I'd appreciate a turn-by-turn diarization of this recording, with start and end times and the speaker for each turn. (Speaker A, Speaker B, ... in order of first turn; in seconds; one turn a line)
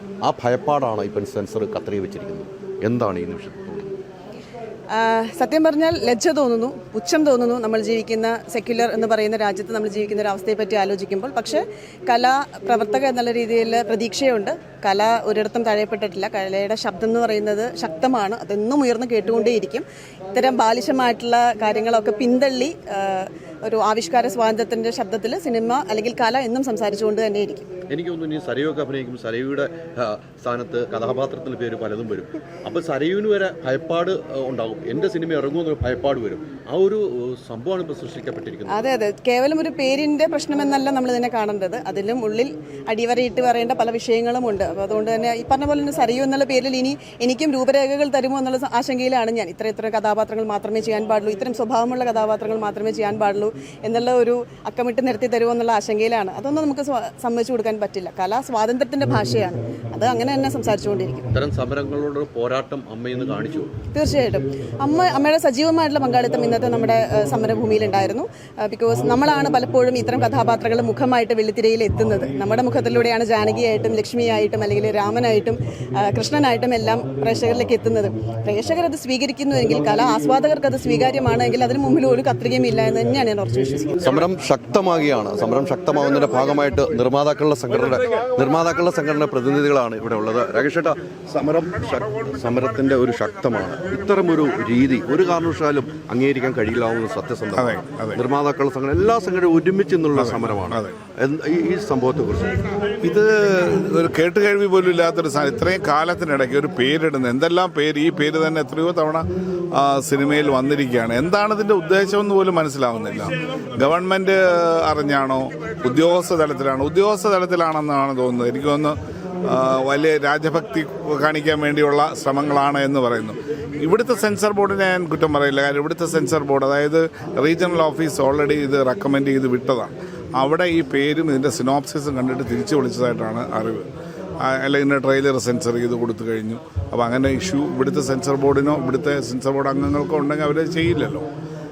Speaker A: 0.2-3.9
Speaker B: 4.9-27.7
Speaker A: 27.9-38.9
Speaker B: 38.7-61.2
Speaker A: 61.3-63.8
Speaker B: 63.9-84.0
Speaker A: 84.0-102.7
Speaker C: 97.5-98.2
Speaker C: 100.2-101.0
Speaker C: 103.0-133.9
Speaker C: 134.4-141.2